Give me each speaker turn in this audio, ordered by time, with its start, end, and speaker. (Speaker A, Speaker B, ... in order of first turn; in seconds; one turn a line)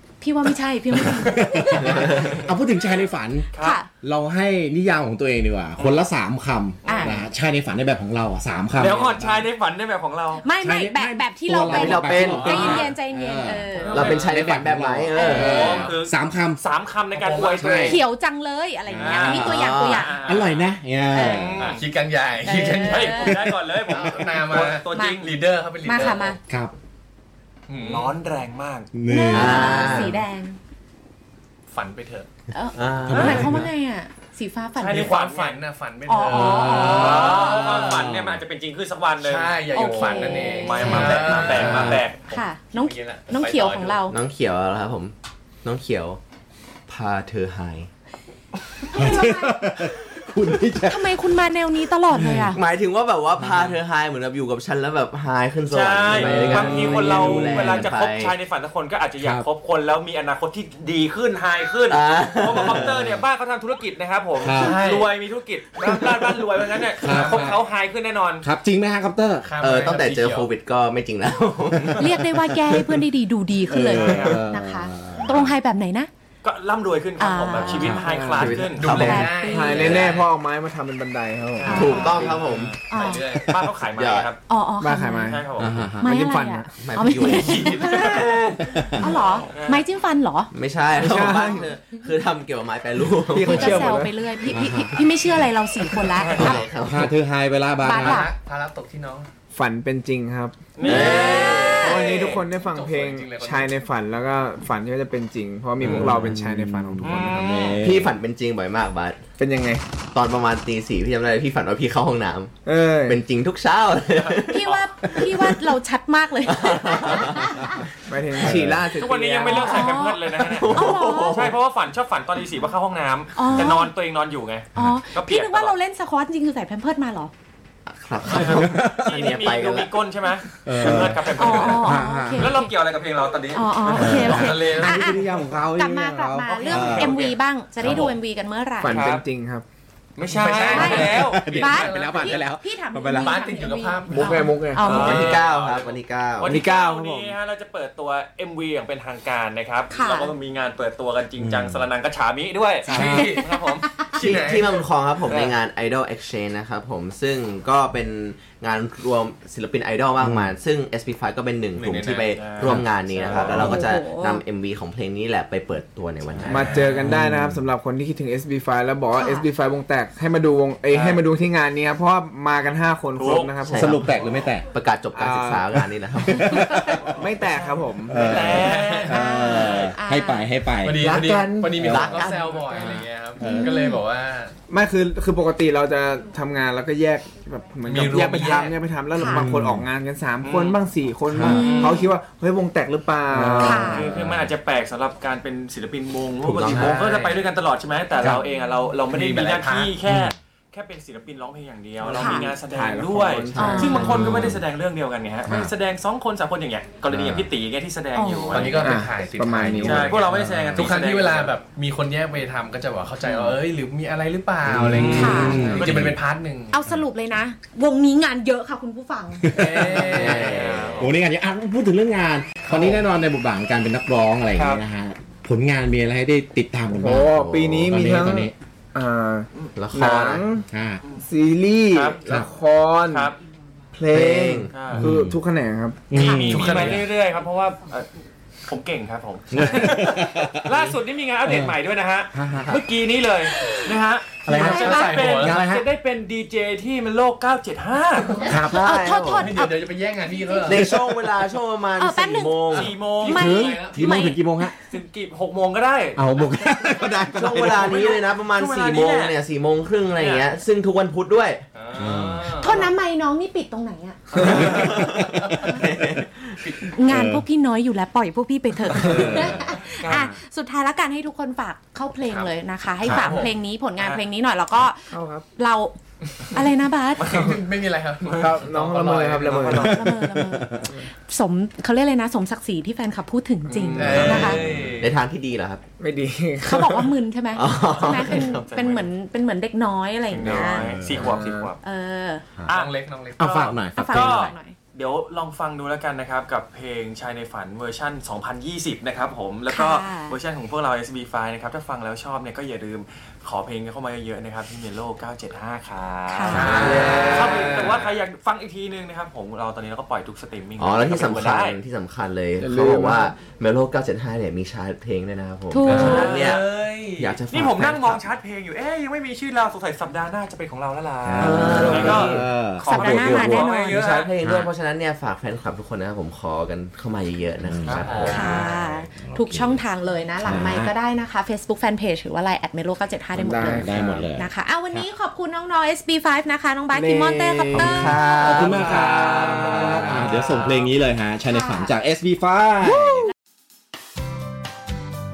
Speaker A: 0.2-2.1
Speaker B: 0.9-3.5
Speaker C: 1.8-2.5
Speaker D: 3.5-3.8
Speaker A: 3.6-3.9
Speaker B: 4.0-9.5
Speaker D: 5.8-6.1
Speaker D: 6.8-7.2
Speaker A: 6.9-7.2
Speaker D: 8.8-10.5
Speaker A: 10.4-14.3
Speaker B: 10.6-16.6
Speaker C: 11.7-12.9
Speaker E: 12.2-12.9
Speaker E: 13.8-14.5
Speaker C: 13.9-15.9
Speaker A: 15.2-15.8
Speaker D: 15.2-18.0
Speaker E: 15.4-16.0
Speaker E: 17.1-18.0
Speaker A: 17.8-20.2
Speaker B: 18.9-19.3
Speaker D: 18.9-21.8
Speaker C: 19.2-20.1
Speaker B: 20.2-21.6
Speaker A: 21.1-21.6
Speaker E: 21.6-26.4
Speaker A: 22.4-23.4
Speaker D: 22.8-25.3
Speaker B: 23.2-24.0
Speaker A: 24.9-25.2
Speaker A: 25.8-26.4
Speaker B: 26.5-26.7
Speaker E: 27.7-28.2
Speaker D: 27.8-28.9
Speaker B: 28.9-30.2
Speaker A: 29.1-30.6
Speaker C: 29.3-30.2
Speaker E: 31.7-32.3
Speaker A: 32.5-35.1
Speaker C: 32.8-33.5
Speaker B: 33.0-33.7
Speaker D: 33.1-33.5
Speaker D: 34.8-35.6
Speaker E: 34.9-38.1
Speaker A: 36.1-37.7
Speaker B: 36.3-38.4
Speaker D: 36.4-42.2
Speaker E: 39.2-44.0
Speaker A: 39.7-41.5
Speaker B: 40.8-42.0
Speaker C: 40.9-41.8
Speaker A: 42.2-44.2
Speaker C: 44.1-46.2
Speaker C: 46.9-47.9
Speaker A: 48.9-49.7
Speaker B: 48.9-51.2
Speaker A: 50.9-52.6
Speaker B: 52.1-52.5
Speaker C: 52.5-58.4
Speaker B: 53.4-53.8
Speaker D: 55.7-68.5
Speaker B: 56.1-57.9
Speaker E: 56.2-57.0
Speaker B: 59.2-59.5
Speaker C: 61.9-62.9
Speaker B: 62.5-63.2
Speaker B: 64.4-64.8
Speaker E: 64.5-65.1
Speaker B: 67.0-67.6
Speaker E: 67.0-67.5
Speaker B: 68.4-69.5
Speaker E: 69.4-70.5
Speaker C: 69.6-73.0
Speaker B: 71.8-72.8
Speaker A: 72.0-76.1
Speaker D: 73.8-74.4
Speaker B: 74.0-75.5
Speaker D: 76.4-79.2
Speaker A: 77.2-78.0
Speaker B: 77.8-78.7
Speaker F: 78.0-78.7
Speaker C: 78.4-80.1
Speaker E: 78.7-80.3
Speaker A: 78.9-79.9
Speaker F: 79.4-82.4
Speaker D: 81.6-84.4
Speaker A: 81.6-82.3
Speaker C: 81.7-82.9
Speaker E: 82.3-83.6
Speaker A: 82.9-83.3
Speaker C: 83.5-84.3
Speaker A: 84.5-85.4
Speaker F: 84.8-86.8
Speaker D: 85.2-85.8
Speaker C: 85.6-86.0
Speaker B: 85.6-86.0
Speaker A: 86.0-88.4
Speaker C: 86.8-88.1
Speaker E: 87.3-88.6
Speaker B: 88.7-89.1
Speaker A: 88.9-90.5
Speaker D: 89.5-89.9
Speaker C: 90.5-93.9
Speaker F: 91.0-91.7
Speaker F: 93.3-94.2
Speaker A: 93.4-96.7
Speaker B: 94.5-95.0
Speaker D: 96.1-96.7
Speaker C: 96.3-97.1
Speaker B: 96.5-98.3
Speaker A: 97.8-98.3
Speaker E: 98.0-99.3
Speaker F: 99.5-101.0
Speaker D: 100.8-102.4
Speaker C: 100.8-101.9
Speaker A: 100.8-102.2
Speaker F: 101.8-107.7
Speaker E: 102.3-103.8
Speaker B: 105.8-108.1
Speaker C: 105.8-106.1
Speaker D: 107.0-107.8
Speaker C: 107.8-109.2
Speaker F: 109.4-109.8
Speaker C: 110.0-115.6
Speaker F: 112.7-113.2
Speaker D: 114.1-114.8
Speaker A: 114.5-117.8
Speaker C: 116.5-117.7
Speaker F: 118.1-119.6
Speaker B: 118.4-118.9
Speaker D: 119.0-125.8
Speaker A: 119.5-121.5
Speaker C: 119.5-121.6
Speaker A: 123.4-123.9
Speaker A: 124.8-127.3
Speaker C: 127.9-129.9
Speaker D: 128.2-134.6
Speaker B: 128.4-129.4
Speaker B: 130.6-132.6
Speaker C: 130.7-131.2
Speaker A: 131.3-132.7
Speaker A: 133.5-139.0
Speaker B: 133.9-137.2
Speaker E: 134.0-135.4
Speaker D: 136.5-138.2
Speaker E: 137.8-138.1
Speaker F: 138.8-139.7
Speaker D: 138.9-139.2
Speaker D: 140.2-141.4
Speaker E: 140.2-142.4
Speaker A: 140.6-145.3
Speaker B: 140.7-143.4
Speaker E: 143.0-144.2
Speaker F: 144.1-145.2
Speaker D: 144.8-145.5
Speaker C: 144.8-146.6
Speaker E: 145.2-146.0
Speaker D: 146.4-153.9
Speaker F: 146.5-147.3
Speaker A: 149.9-150.3
Speaker B: 151.4-151.8
Speaker A: 152.9-154.1
Speaker E: 152.9-154.9
Speaker C: 154.2-166.8
Speaker B: 160.2-160.6
Speaker E: 161.7-162.2
Speaker D: 162.1-163.8
Speaker B: 162.6-163.8
Speaker A: 163.6-164.4
Speaker D: 166.3-167.1
Speaker F: 166.5-174.1
Speaker B: 167.0-167.6
Speaker A: 169.2-169.5
Speaker D: 170.9-171.2
Speaker D: 173.2-173.7
Speaker C: 173.7-174.1
Speaker B: 173.8-174.7
Speaker C: 174.7-176.9
Speaker F: 175.2-175.8
Speaker B: 176.2-177.3
Speaker F: 177.1-178.6
Speaker D: 177.4-179.9
Speaker B: 178.1-181.1
Speaker E: 178.3-179.2
Speaker A: 179.1-180.5
Speaker E: 180.8-184.6
Speaker F: 181.0-182.3
Speaker B: 181.7-182.2
Speaker C: 181.8-182.4
Speaker A: 182.2-184.0
Speaker F: 184.7-194.0
Speaker E: 187.8-188.8
Speaker A: 189.2-189.4
Speaker B: 189.3-189.9
Speaker D: 190.4-190.8
Speaker B: 191.3-191.7
Speaker A: 191.4-192.1
Speaker D: 191.5-192.1
Speaker B: 193.3-194.5
Speaker A: 193.6-194.1
Speaker D: 193.9-208.9
Speaker B: 196.4-197.0
Speaker E: 196.7-197.5
Speaker E: 199.1-200.0
Speaker B: 200.1-200.3
Speaker F: 202.0-204.5
Speaker A: 202.1-202.5
Speaker A: 203.6-204.1
Speaker B: 204.1-204.6
Speaker B: 205.5-205.7
Speaker B: 207.1-207.5
Speaker A: 208.1-208.9
Speaker E: 208.5-216.8
Speaker F: 208.8-210.1
Speaker D: 209.8-211.5
Speaker B: 209.9-211.1
Speaker D: 213.2-213.6
Speaker B: 214.7-216.2
Speaker D: 214.8-216.2
Speaker A: 215.2-215.6
Speaker A: 216.7-219.6
Speaker B: 219.4-227.3
Speaker E: 219.5-221.0
Speaker C: 220.1-221.1
Speaker D: 220.2-221.1
Speaker E: 222.7-223.0
Speaker D: 224.6-224.8
Speaker F: 226.9-230.7
Speaker C: 227.1-228.0
Speaker B: 227.9-228.5
Speaker C: 229.7-230.4
Speaker B: 230.7-231.0
Speaker F: 231.2-233.3
Speaker D: 231.9-232.2
Speaker D: 233.1-233.4
Speaker F: 233.9-236.1
Speaker C: 234.1-234.7
Speaker D: 234.7-235.0
Speaker B: 234.9-235.4
Speaker B: 236.1-237.1
Speaker A: 236.1-236.6
Speaker D: 236.2-238.1
Speaker D: 238.7-248.5
Speaker B: 239.5-240.8
Speaker B: 241.4-241.8
Speaker B: 242.3-242.8
Speaker A: 243.5-245.4
Speaker E: 244.5-245.6
Speaker B: 244.5-245.9
Speaker B: 248.4-248.8
Speaker A: 248.6-250.8
Speaker C: 248.6-249.5
Speaker E: 249.3-251.0
Speaker C: 250.6-253.0
Speaker A: 252.0-254.7
Speaker D: 252.7-253.5
Speaker E: 253.2-254.2
Speaker B: 253.3-254.8
Speaker D: 254.9-256.3
Speaker B: 256.1-257.9
Speaker C: 257.3-261.6
Speaker D: 257.5-259.4
Speaker D: 260.2-260.5
Speaker E: 261.7-262.9
Speaker B: 262.0-262.6
Speaker A: 262.6-264.5
Speaker D: 264.3-264.9
Speaker C: 264.4-266.7
Speaker B: 264.6-265.7
Speaker E: 265.4-265.9
Speaker E: 266.6-266.9
Speaker A: 266.9-276.0
Speaker B: 267.1-267.4
Speaker B: 268.9-269.6
Speaker D: 269.1-270.4
Speaker E: 272.2-273.6
Speaker B: 273.0-273.4
Speaker F: 275.1-275.5
Speaker A: 276.5-277.4
Speaker E: 277.1-280.0
Speaker F: 278.4-279.9
Speaker B: 279.7-280.9
Speaker A: 279.7-284.6
Speaker E: 283.8-285.2
Speaker F: 283.8-284.1
Speaker B: 284.1-284.9
Speaker D: 284.1-284.4
Speaker C: 284.2-285.8
Speaker F: 286.0-287.1
Speaker A: 286.6-290.9
Speaker C: 287.5-288.6
Speaker E: 287.9-288.5
Speaker D: 287.9-289.1
Speaker D: 290.3-291.8
Speaker B: 290.4-291.4
Speaker F: 291.1-291.7
Speaker A: 291.8-292.4
Speaker D: 292.7-311.8
Speaker E: 292.7-293.8
Speaker B: 293.4-294.5
Speaker A: 293.9-294.8
Speaker A: 299.7-300.4
Speaker A: 306.3-307.0
Speaker E: 306.5-308.2
Speaker C: 306.6-306.9
Speaker F: 306.8-307.7
Speaker C: 310.8-318.3
Speaker F: 312.6-313.4
Speaker A: 315.7-316.4
Speaker E: 315.9-317.4
Speaker D: 315.9-316.8
Speaker D: 317.5-324.3
Speaker B: 321.2-323.6
Speaker C: 321.4-322.5
Speaker A: 322.9-324.0
Speaker C: 323.5-328.6
Speaker B: 324.4-324.7
Speaker B: 327.6-329.8
Speaker D: 327.8-328.5
Speaker E: 328.0-328.5
Speaker A: 328.2-338.7
Speaker B: 330.4-330.9
Speaker F: 333.3-334.3
Speaker B: 333.6-335.1
Speaker F: 336.9-338.1
Speaker C: 337.7-340.3
Speaker B: 338.4-343.3
Speaker D: 338.8-340.8
Speaker F: 338.8-340.2
Speaker A: 341.5-341.9